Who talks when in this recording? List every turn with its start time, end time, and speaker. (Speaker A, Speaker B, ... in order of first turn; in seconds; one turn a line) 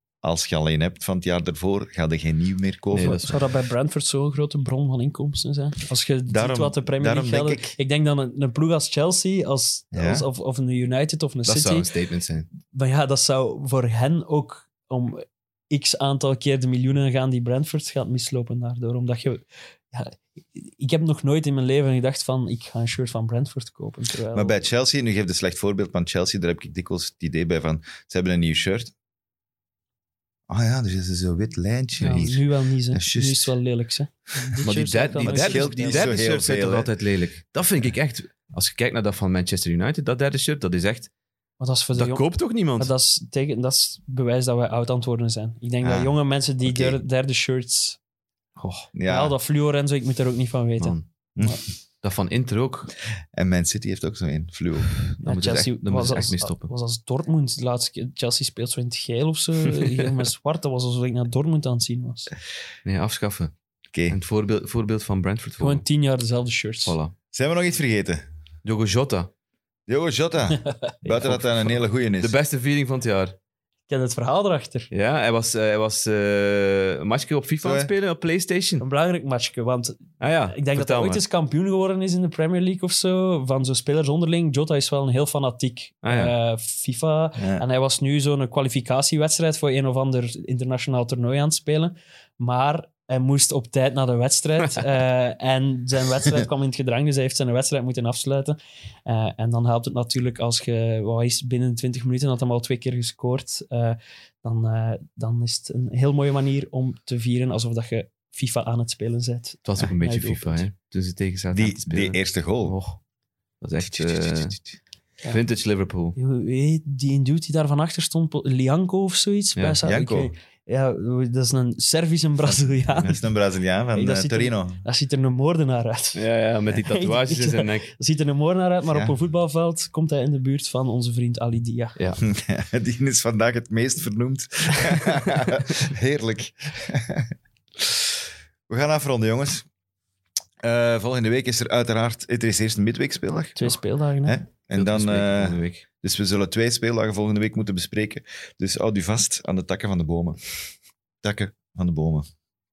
Speaker A: 0.2-3.3
Speaker B: 2.9-3.5
Speaker C: 3.2-11.9
Speaker A: 6.3-7.7
Speaker A: 9.9-10.3
Speaker B: 11.5-12.5
Speaker C: 12.7-24.6
Speaker A: 24.3-28.9
Speaker A: 30.5-33.5
Speaker C: 32.0-36.0
Speaker A: 34.5-36.9
Speaker B: 34.6-41.1
Speaker C: 41.6-42.2
Speaker B: 42.0-42.9
Speaker C: 42.8-48.0
Speaker A: 45.8-47.0
Speaker B: 48.6-48.9
Speaker A: 48.9-49.3
Speaker C: 49.0-51.6
Speaker B: 52.0-52.9
Speaker A: 53.3-54.9
Speaker B: 55.0-56.7
Speaker C: 55.2-62.3
Speaker B: 62.8-63.5
Speaker B: 64.1-65.8
Speaker C: 65.6-66.9
Speaker B: 66.8-67.1
Speaker A: 67.3-68.2
Speaker B: 68.6-69.3
Speaker A: 69.9-72.3
Speaker B: 71.2-73.3
Speaker C: 73.9-74.9
Speaker B: 74.9-78.8
Speaker A: 77.6-77.9
Speaker C: 78.8-110.7
Speaker B: 80.2-81.2
Speaker B: 86.0-86.3
Speaker A: 87.4-87.6
Speaker B: 109.6-113.0
Speaker A: 111.5-112.8
Speaker B: 113.6-114.8
Speaker A: 113.9-114.5
Speaker B: 115.3-116.2
Speaker C: 116.2-123.2
Speaker A: 119.8-120.3
Speaker A: 122.5-124.8
Speaker C: 123.9-126.2
Speaker B: 126.1-127.9
Speaker C: 126.8-131.9
Speaker A: 128.9-129.1
Speaker A: 132.2-139.7
Speaker A: 140.6-150.4
Speaker C: 143.6-144.4
Speaker B: 144.7-145.8
Speaker A: 151.2-152.3